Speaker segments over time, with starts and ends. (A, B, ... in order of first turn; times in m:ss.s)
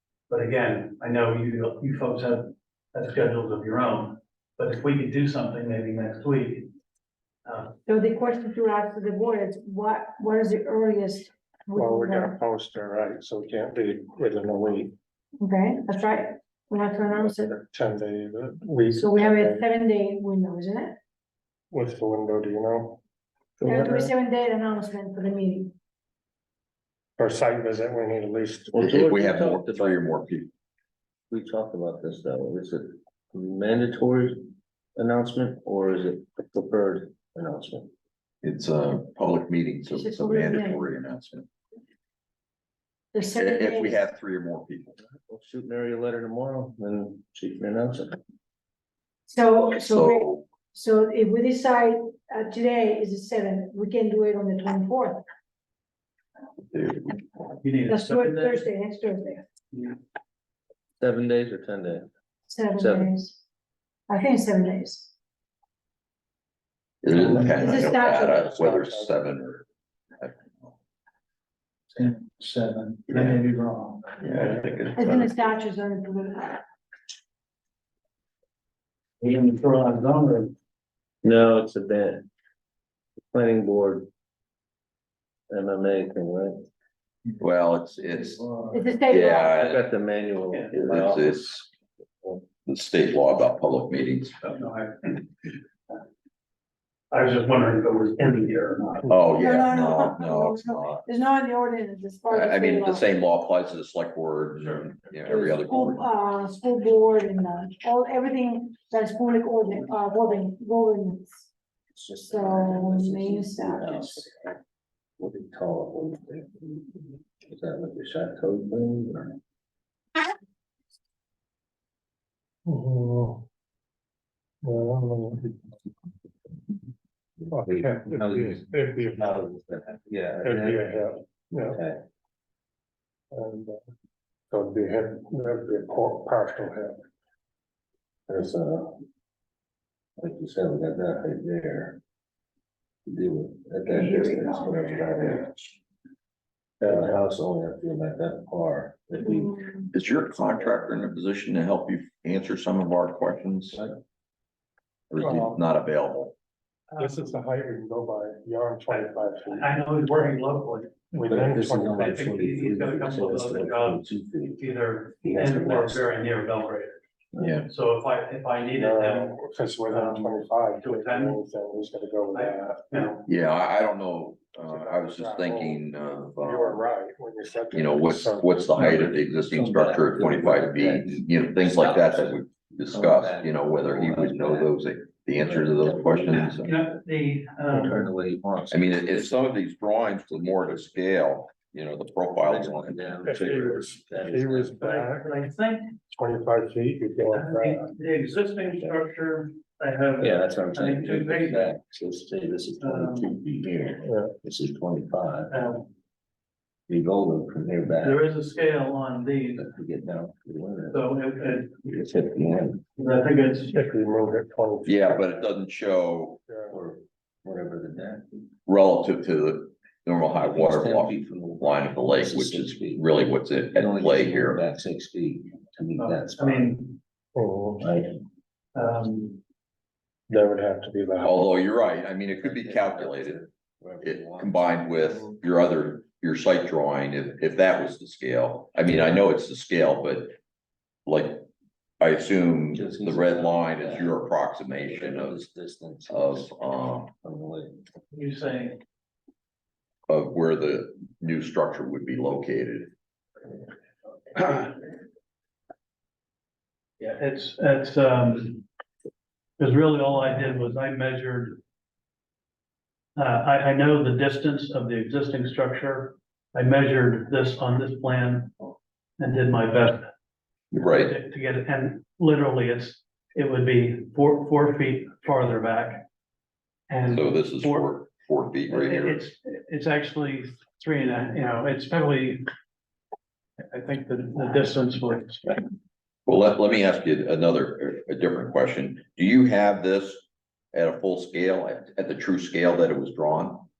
0:00.3-0:06.7 A
0:07.4-0:07.8 A
0:07.9-0:12.4 B
0:11.8-0:15.0 C
0:15.4-0:17.5 B
0:17.2-0:19.6 C
0:19.0-0:21.0 B
0:21.7-0:23.0 C
0:23.6-0:24.1 D
0:23.6-0:25.7 B
0:27.2-0:28.9 C
0:28.7-0:30.2 D
0:28.8-0:30.5 E
0:31.3-0:34.4 D
0:35.0-0:37.9 D
0:38.4-0:41.5 E
0:39.9-0:40.8 B
0:43.1-0:44.0 B
0:43.3-0:45.0 E
0:45.3-0:48.2 D
0:49.3-0:55.2 B
0:49.8-0:50.5 E
0:56.7-0:57.2 E
0:57.6-0:58.7 A
0:57.9-0:59.4 B
0:59.7-1:00.0 A
1:01.0-1:02.1 D
1:02.5-1:03.4 B
1:02.7-1:03.2 D
1:04.1-1:05.1 B
1:07.0-1:09.7 E
1:07.2-1:07.8 C
1:07.5-1:08.5 B
1:08.4-1:09.1 C
1:10.2-1:10.7 E
1:11.9-1:14.7 A
1:13.1-1:13.4 E
1:14.2-1:15.4 E
1:15.0-1:16.6 B
1:19.2-1:20.5 A
1:21.2-1:22.3 D
1:23.3-1:24.1 D
1:25.5-1:26.5 D
1:27.4-1:29.9 E
1:28.7-1:29.5 B
1:29.4-1:31.5 D
1:30.7-1:31.7 E
1:32.5-1:34.4 E
1:34.4-1:35.5 A
1:37.1-1:39.2 A
1:39.1-1:41.0 E
1:39.4-1:43.1 B
1:42.3-1:46.1 E
1:44.6-1:44.9 A
1:45.3-1:51.5 B
1:51.9-1:54.5 D
1:52.3-1:54.3 B
1:55.2-1:56.9 D
1:57.4-1:59.4 D
2:02.7-2:03.4 C
2:04.6-2:05.6 C
2:07.4-2:10.9 D
2:07.5-2:09.4 C
2:10.4-2:11.8 C
2:11.7-2:12.0 D
2:13.3-2:13.8 C
2:14.5-2:17.0 C
2:18.3-2:19.0 D
2:20.2-2:22.0 D
2:23.1-2:25.7 D
2:23.9-2:25.0 B
2:26.8-2:29.8 D
2:29.9-2:33.8 E
2:35.1-2:36.3 E
2:35.2-2:35.6 C
2:36.9-2:37.4 A
2:37.0-2:39.7 C
2:38.9-2:40.9 A
2:41.1-2:42.3 C
2:41.3-2:44.7 D
2:42.0-2:47.0 A
2:45.2-2:46.1 D
2:47.4-2:47.7 E
2:47.6-2:51.4 A
2:48.8-2:52.8 C
2:52.3-2:53.3 A
2:53.3-2:56.8 E
2:54.7-2:55.8 C
2:56.4-2:58.8 C
2:57.7-3:06.7 E
2:58.9-3:04.8 D
3:05.4-3:06.9 D
3:06.3-3:08.1 A
3:07.7-3:09.4 D
3:08.7-3:13.1 E
3:12.4-3:15.0 D
3:13.2-3:15.3 C
3:14.8-3:16.0 A
3:16.1-3:17.8 C
3:17.2-3:21.7 A
3:20.2-3:25.5 D
3:22.8-3:23.4 A
3:24.0-3:24.3 C
3:25.5-3:25.9 A
3:26.9-3:28.3 D
3:28.0-3:29.7 A
3:29.5-3:31.1 D
3:30.9-3:32.0 A
3:31.8-3:32.8 D
3:33.0-3:33.9 A
3:33.7-3:35.5 C
3:34.9-3:36.5 E
3:36.5-3:36.8 C
3:36.7-3:38.3 D
3:38.7-3:44.6 E
3:40.3-3:43.0 D
3:43.8-3:46.7 D
3:46.0-3:47.0 A
3:47.4-3:47.8 C
3:47.8-3:48.1 D
3:48.8-3:49.4 A
3:50.3-3:51.5 C
3:51.2-3:53.4 E
3:52.3-3:55.2 D
3:54.0-4:00.4 E
4:01.1-4:01.4 E
4:02.0-4:05.5 E
4:02.7-4:06.6 D
4:06.1-4:07.1 E
4:07.2-4:07.8 D
4:08.1-4:08.8 A
4:10.1-4:12.9 E
4:14.4-4:14.7 A
4:17.0-4:18.6 A
4:19.6-4:21.6 A
4:23.2-4:28.6 A
4:29.2-4:30.1 A
4:30.7-4:31.2 E
4:30.9-4:36.0 A
4:36.9-4:37.9 A
4:37.1-4:39.3 E
4:38.7-4:42.5 A
4:43.7-4:45.7 A
4:46.3-4:53.7 E